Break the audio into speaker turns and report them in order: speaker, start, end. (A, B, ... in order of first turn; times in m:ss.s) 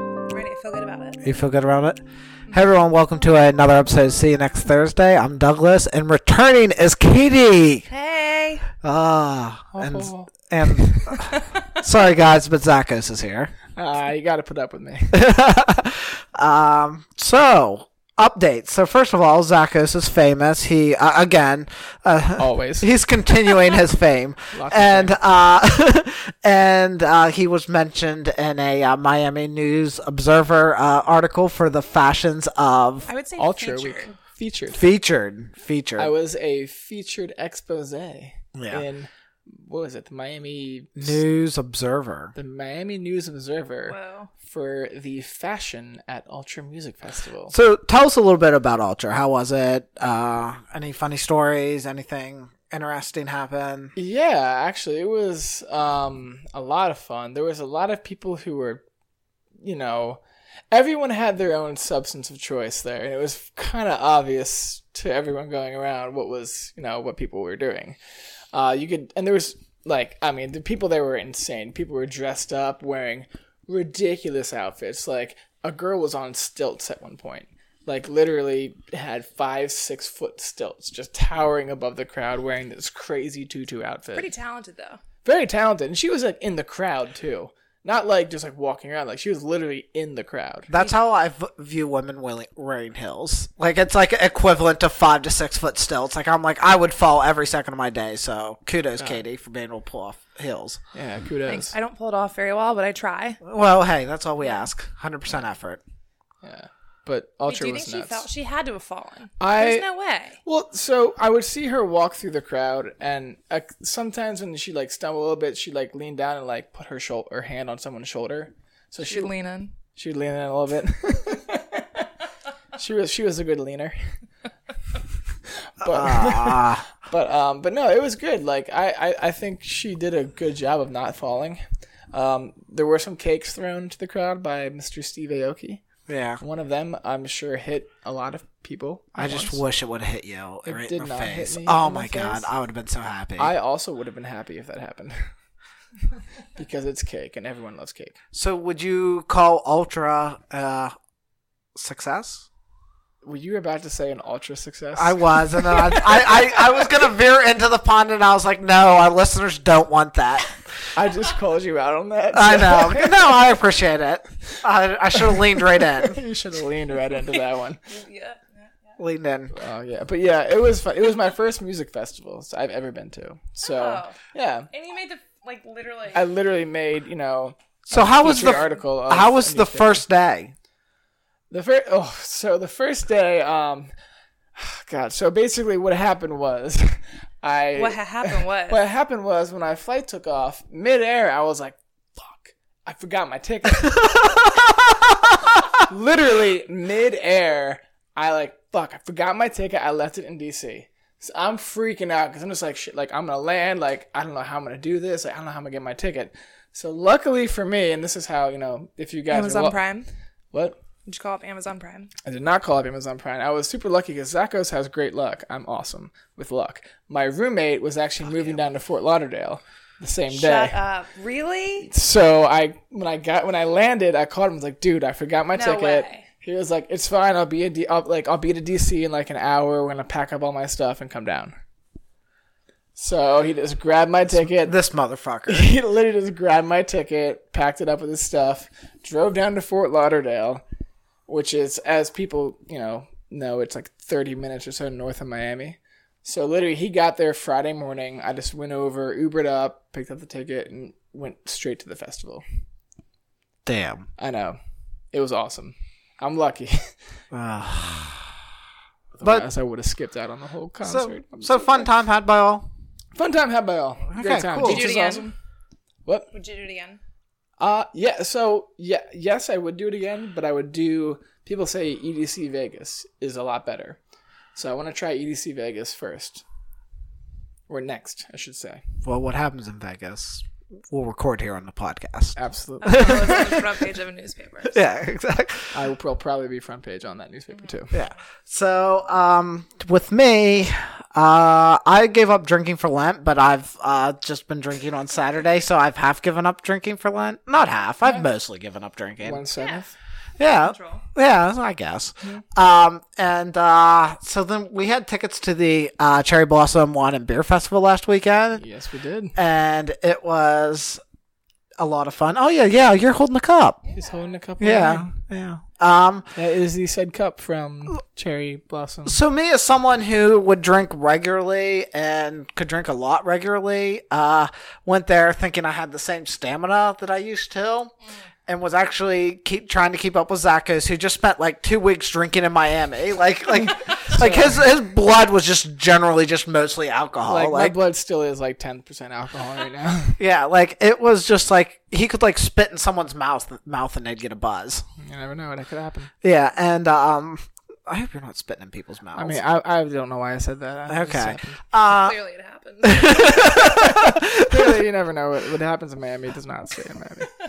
0:00.3-0:01.2 A
0:01.2-0:02.0 B
0:02.5-0:07.9 B
0:07.9-0:08.6 A
0:08.8-0:13.5 B
0:09.7-0:11.2 C
0:13.8-0:15.2 C
0:15.1-0:33.1 B
0:22.4-0:22.9 C
0:24.5-0:25.2 C
0:33.1-0:34.1 A
0:33.4-0:34.9 C
0:34.7-0:36.1 B
0:36.0-0:41.2 C
0:38.6-0:38.8 B
0:41.0-0:42.3 B
0:42.3-0:47.5 C
0:43.9-0:44.3 A
0:47.5-0:53.9 B
0:54.0-0:58.8 C
0:59.6-1:00.2 C
1:00.7-1:08.0 C
1:08.5-1:24.3 C
1:24.2-1:25.0 A
1:25.2-1:30.7 C
1:30.7-1:40.8 B
1:40.9-1:41.7 C
1:41.4-1:43.4 A
1:43.4-1:45.8 B
1:46.4-1:48.3 C
1:47.5-1:50.4 A
1:49.4-1:49.8 C
1:50.4-1:59.3 C
1:59.1-1:59.7 A
1:59.9-2:02.0 C
2:02.8-2:04.2 C
2:05.7-2:15.8 C
2:05.8-2:06.9 B
2:16.1-2:16.4 B
2:16.4-2:19.6 C
2:19.2-2:23.5 B
2:20.7-2:22.5 C
2:23.4-2:25.3 C
2:26.6-2:28.1 C
2:28.3-2:30.9 B
2:31.7-2:32.4 B
2:33.2-2:36.5 C
2:35.0-2:40.5 B
2:40.9-2:43.4 C
2:42.3-2:46.2 B
2:45.2-2:47.8 C
2:47.9-2:48.7 A
2:49.0-2:49.5 B
2:49.5-2:54.7 C
2:53.6-2:54.2 A
2:54.7-2:56.2 A
2:56.1-3:00.0 C
2:57.8-3:00.5 B
3:01.5-3:03.9 C
3:04.6-3:14.4 C
3:07.7-3:08.8 A
3:15.8-3:29.8 C
3:29.3-3:30.1 A
3:30.5-3:30.8 C
3:31.0-3:32.1 A
3:32.2-3:40.8 C
3:38.3-3:38.6 B
3:40.3-3:41.9 A
3:41.8-3:51.5 C
3:45.5-3:46.2 A
3:53.0-3:54.8 C
3:54.4-3:55.7 B
3:55.5-4:00.6 C
4:01.3-4:12.4 C
4:13.6-4:14.0 B
4:14.2-4:14.6 C
4:15.1-4:16.9 C
4:17.3-4:18.4 B
4:19.1-4:21.8 C
4:20.8-4:22.7 B
4:23.2-4:25.4 C
4:24.1-4:24.8 B
4:24.6-4:25.3 A
4:26.0-4:26.3 C
4:26.3-4:27.0 A
4:27.6-4:34.0 C
4:34.6-4:36.4 C
4:37.7-4:38.8 C
4:39.0-4:42.4 B
4:42.4-4:43.6 C
4:42.8-4:44.8 A
4:42.9-4:43.6 B
4:44.6-4:45.8 B
4:45.7-4:47.9 C
4:47.9-4:59.5 B
4:59.2-4:59.9 C
4:59.6-4:59.8 A
5:00.4-5:08.6 B
5:00.6-5:01.0 A
5:08.6-5:09.4 C
5:09.4-5:11.0 B
5:11.8-5:13.8 B
5:13.9-5:14.3 A
5:13.9-5:15.2 C
5:14.6-5:16.3 B
5:16.4-5:19.2 C
5:19.1-5:27.9 B
5:28.5-5:37.8 B
5:34.2-5:34.6 C
5:37.2-5:40.2 C
5:40.2-5:44.8 B
5:45.0-5:46.1 C
5:46.2-5:49.4 B
5:49.2-5:51.6 C
5:50.9-5:52.2 B
5:51.8-5:53.6 A
5:52.8-5:54.8 B
5:53.9-5:57.3 C